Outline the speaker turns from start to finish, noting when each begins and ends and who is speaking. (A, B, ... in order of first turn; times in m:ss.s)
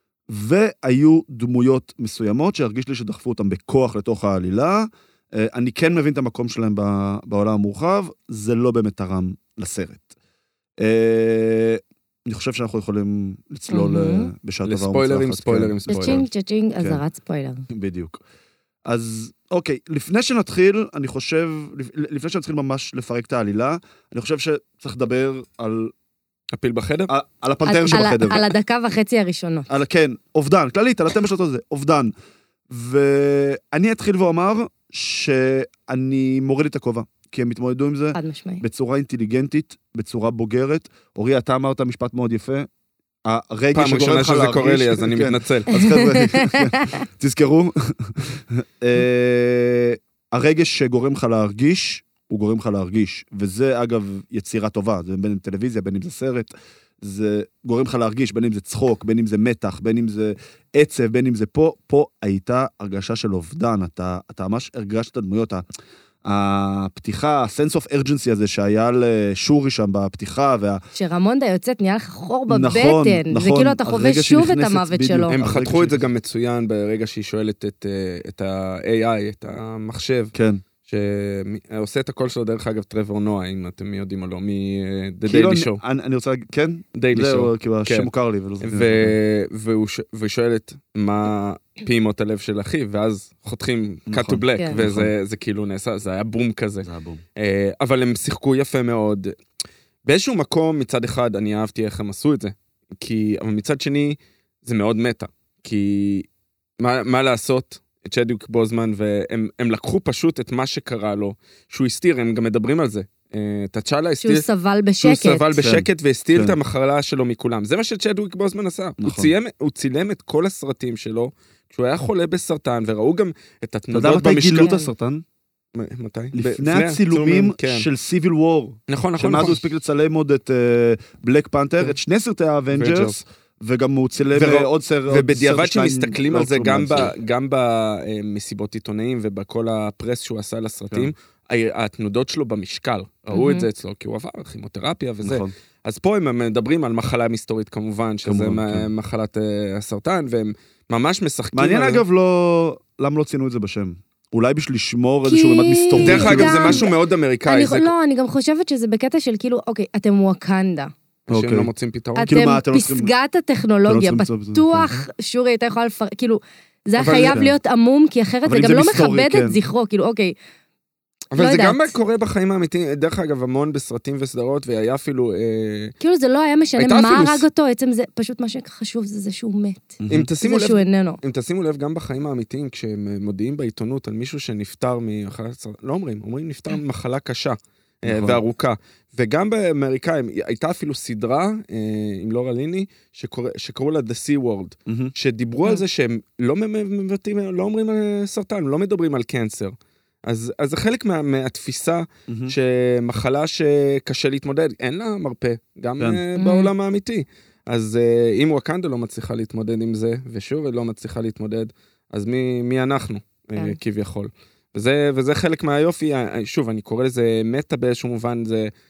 0:00.3-0:10.1 A
0:10.8-0:16.2 A
0:13.7-0:14.3 B
0:14.6-0:16.2 C
0:15.9-0:17.6 B
0:17.7-0:18.2 A
0:18.8-0:25.9 A
0:26.5-0:27.1 C
0:27.1-0:28.5 A
0:27.6-0:29.7 B
0:29.7-0:32.1 A
0:32.7-0:42.7 A
0:38.2-0:38.6 B
0:43.3-1:05.6 A
0:43.7-0:45.8 C
0:45.7-0:47.0 B
1:06.2-1:10.8 A
1:11.0-1:15.4 B
1:12.5-1:16.0 A
1:15.3-1:20.3 C
1:20.3-1:20.6 A
1:20.9-1:25.8 C
1:25.2-1:29.2 A
1:27.0-1:28.1 C
1:28.6-1:39.4 C
1:34.1-1:35.1 A
1:36.8-1:37.2 A
1:40.1-1:46.3 C
1:46.8-1:54.5 C
1:54.2-1:55.6 B
1:55.0-2:04.7 C
1:55.6-1:56.6 A
1:59.0-1:59.3 A
2:03.9-2:05.2 A
2:04.6-2:04.9 B
2:05.8-2:07.9 C
2:06.3-2:17.1 A
2:08.9-2:09.6 C
2:12.7-2:13.2 C
2:14.3-2:32.0 C
2:23.3-2:23.7 B
2:25.2-2:25.5 A
2:28.2-2:28.9 A
2:31.5-2:36.9 A
2:35.3-2:36.9 B
2:36.0-2:37.9 C
2:37.5-2:40.9 B
2:41.3-2:42.3 C
2:41.3-2:41.7 A
2:42.2-2:50.4 B
2:42.3-2:43.1 A
2:43.9-2:45.0 A
2:47.0-2:47.5 A
2:48.4-2:49.6 A
2:51.3-2:55.9 C
2:51.4-2:51.9 B
2:56.0-3:01.2 B
2:56.8-2:57.4 C
3:00.0-3:00.3 A
3:00.1-3:19.7 C
3:08.0-3:08.4 A
3:14.9-3:15.1 A
3:20.3-3:38.7 C
3:22.3-3:22.6 A
3:26.4-3:26.7 B